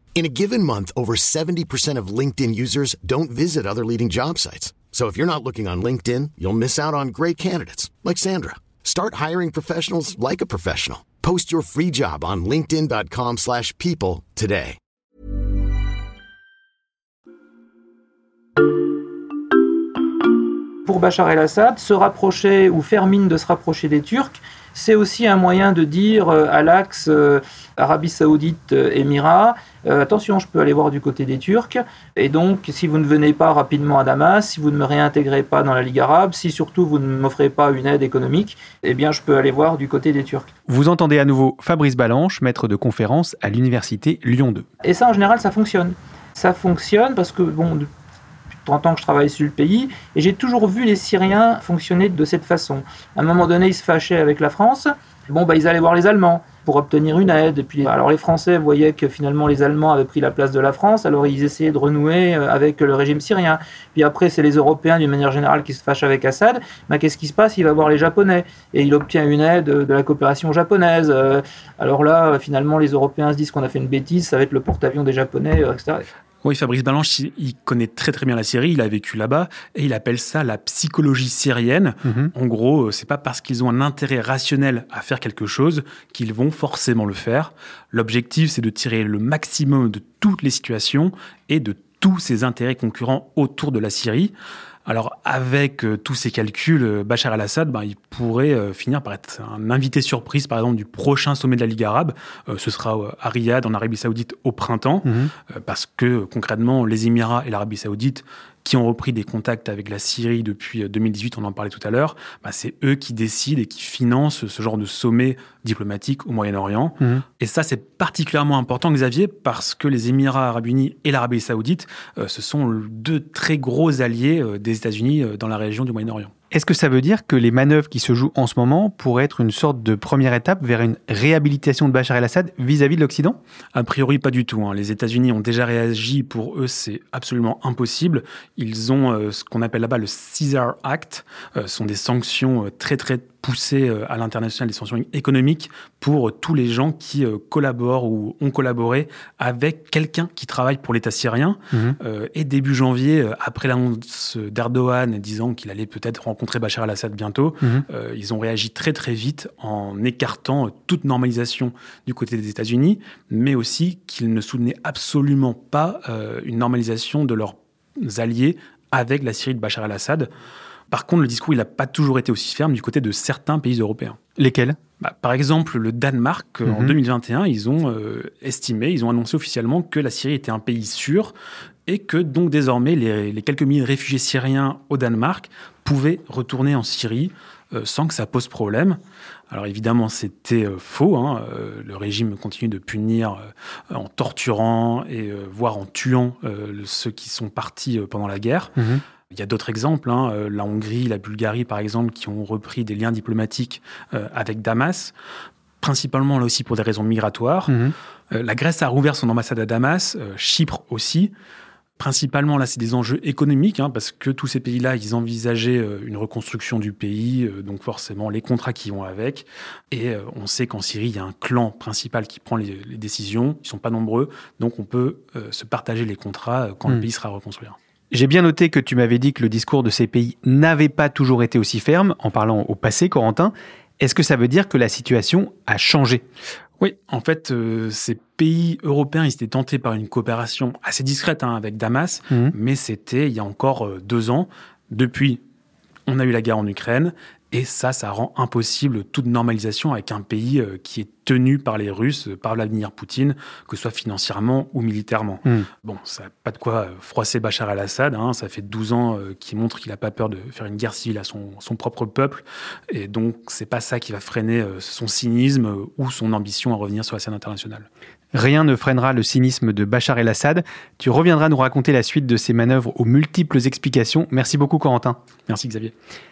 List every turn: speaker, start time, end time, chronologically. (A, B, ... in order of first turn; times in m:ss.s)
0:00.1-0:14.8 A
0:20.8-0:40.5 B
0:40.7-0:44.6 C
0:44.8-0:47.8 B
0:48.5-1:16.0 B
1:16.4-1:34.3 D
1:22.0-1:22.3 C
1:34.8-2:06.3 D
1:45.0-1:45.3 C
2:06.5-2:13.4 C
2:13.7-2:50.3 D
2:31.7-2:32.0 C
2:50.9-2:54.2 D
2:54.4-2:54.8 C
2:55.0-3:01.3 D
2:56.7-2:56.9 C
3:01.9-3:09.0 D
3:09.5-3:18.7 D
3:18.8-3:19.0 C
3:19.3-3:25.1 D
3:25.8-3:27.7 D
3:27.7-3:27.9 C
3:28.3-3:31.3 D
3:32.0-3:47.8 D
3:48.1-3:56.2 C
3:56.8-4:05.4 D
4:06.1-4:27.9 D
4:28.3-4:35.2 C
4:35.5-4:35.9 D